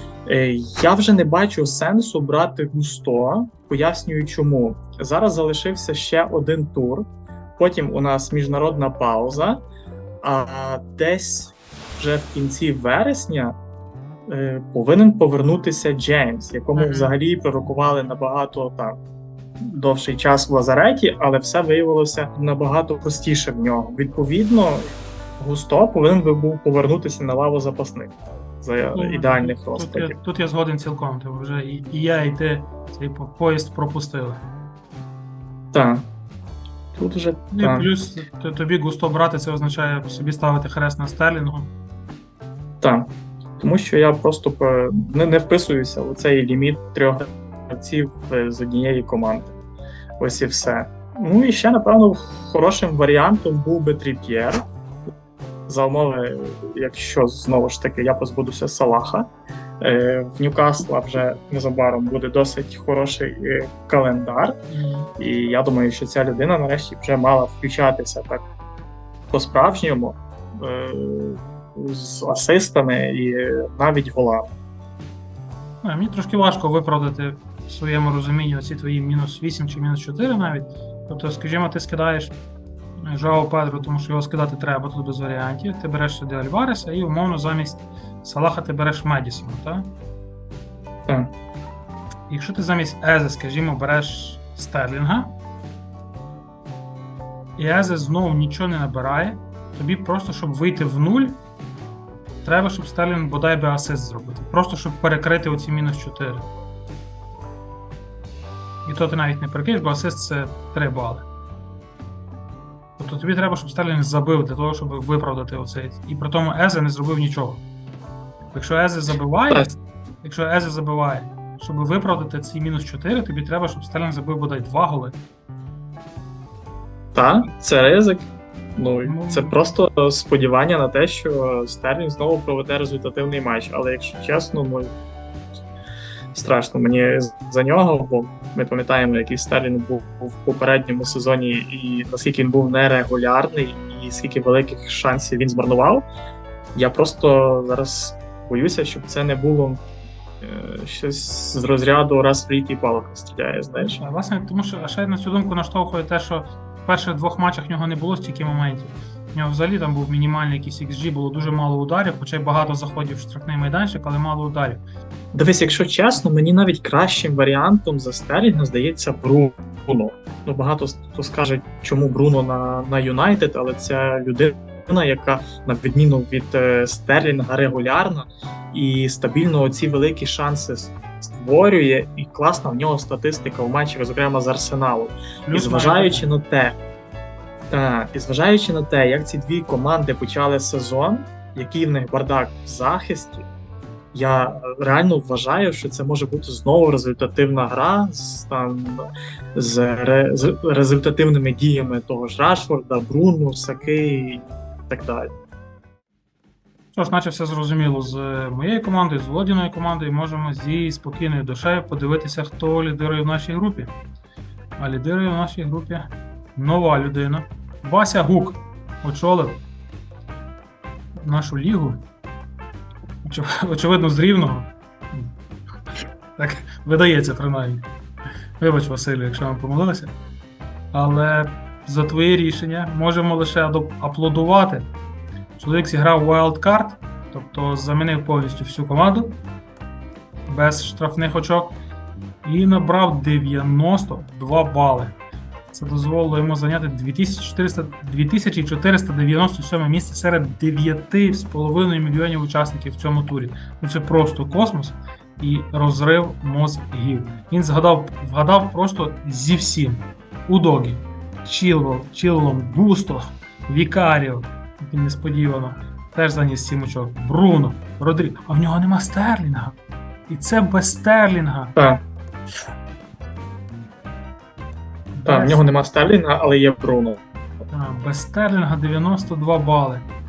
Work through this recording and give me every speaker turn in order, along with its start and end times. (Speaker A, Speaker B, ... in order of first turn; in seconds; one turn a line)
Speaker A: 0.2-9.6
Speaker A: 10.2-13.6
Speaker A: 14.3-19.0
Speaker B: 16.8-17.2
Speaker A: 19.6-24.9
Speaker A: 25.4-30.1
Speaker B: 28.9-34.4
Speaker A: 35.7-36.0
Speaker A: 36.9-37.9
Speaker B: 37.5-41.7
Speaker A: 42.8-49.6
Speaker A: 50.2-54.6
Speaker A: 55.7-59.3
Speaker A: 59.8-64.6
Speaker B: 64.7-65.1
Speaker A: 65.2-68.4
Speaker A: 69.3-74.5
Speaker B: 75.8-82.3
Speaker B: 83.0-89.9
Speaker A: 91.0-91.3
Speaker B: 92.3-95.3
Speaker B: 97.6-101.4
Speaker B: 102.4-106.5
Speaker B: 108.8-111.2
Speaker B: 113.0-117.6
Speaker B: 118.5-125.2
Speaker A: 127.1-134.9
Speaker B: 129.0-129.6
Speaker A: 136.3-146.1
Speaker A: 146.7-149.8
Speaker A: 150.4-154.0
Speaker B: 153.9-164.8
Speaker A: 165.3-186.8
Speaker B: 185.5-186.3
Speaker A: 187.7-193.5
Speaker A: 194.1-205.3
Speaker B: 206.9-213.9
Speaker B: 214.8-219.6
Speaker B: 221.2-222.0
Speaker B: 223.2-225.3
Speaker B: 226.4-227.8
Speaker B: 228.6-230.1
Speaker B: 230.9-234.9
Speaker B: 235.6-239.4
Speaker B: 240.5-241.8
Speaker B: 242.4-245.2
Speaker B: 245.7-269.7
Speaker B: 270.3-271.7
Speaker A: 271.8-272.0
Speaker B: 275.1-275.6
Speaker A: 275.2-277.2
Speaker B: 277.7-280.0